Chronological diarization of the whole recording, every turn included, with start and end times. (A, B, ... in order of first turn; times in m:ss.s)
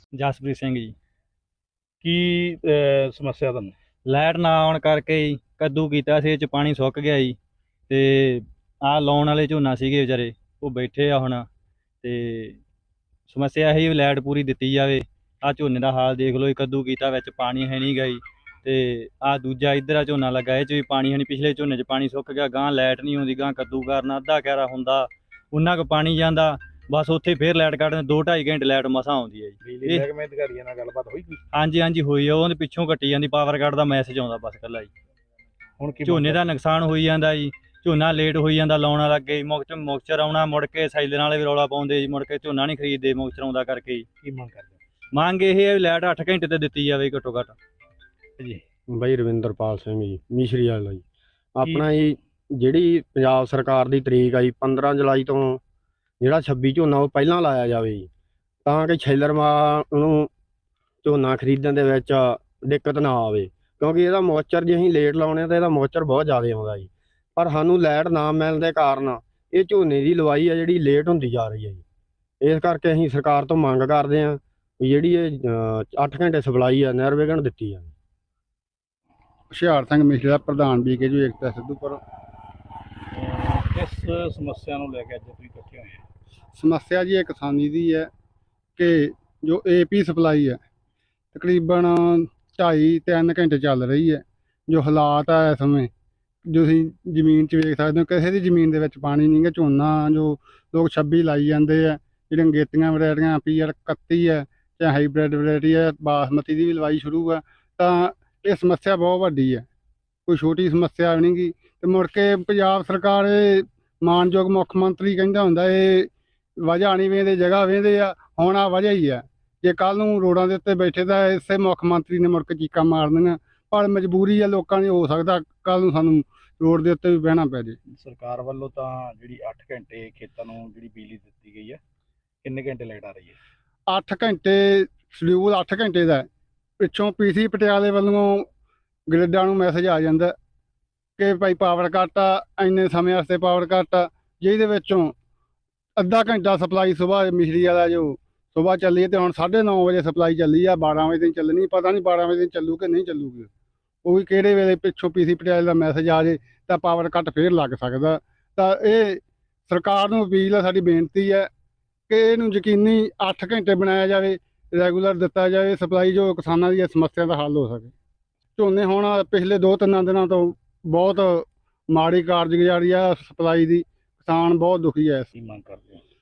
0:00.2-0:00.9 A
0:02.0-0:03.7 B
0:04.1-0:07.4 A
0:07.9-0:11.4 A
0:12.0-0:12.6 A
0:13.3-0:30.1 A
0:29.6-0:31.4 B
0:31.5-0:34.9 A
0:35.8-0:36.5 B
0:36.1-0:44.0 A
0:44.2-0:44.8 B
0:45.1-0:47.6 A
0:48.9-0:51.0 C
0:51.6-0:55.6 C
0:51.6-0:52.0 B
0:56.2-0:58.1 C
0:58.6-1:00.3 C
1:01.0-1:11.8 C
1:12.4-1:17.9 C
1:19.5-1:22.0 D
1:23.1-1:26.0 B
1:26.6-1:28.1 D
1:28.8-1:30.6 D
1:31.3-1:35.9 D
1:36.5-1:49.7 D
1:50.3-2:07.8 D
2:07.9-2:11.8 B
2:12.4-2:13.4 B
2:13.9-2:16.3 D
2:16.8-2:18.5 D
2:19.1-2:20.3 D
2:21.2-2:25.1 D
2:26.0-2:33.5 D
2:34.0-2:41.5 D
2:42.1-2:47.9 D
2:48.6-2:55.3 D
2:55.3-2:56.0 B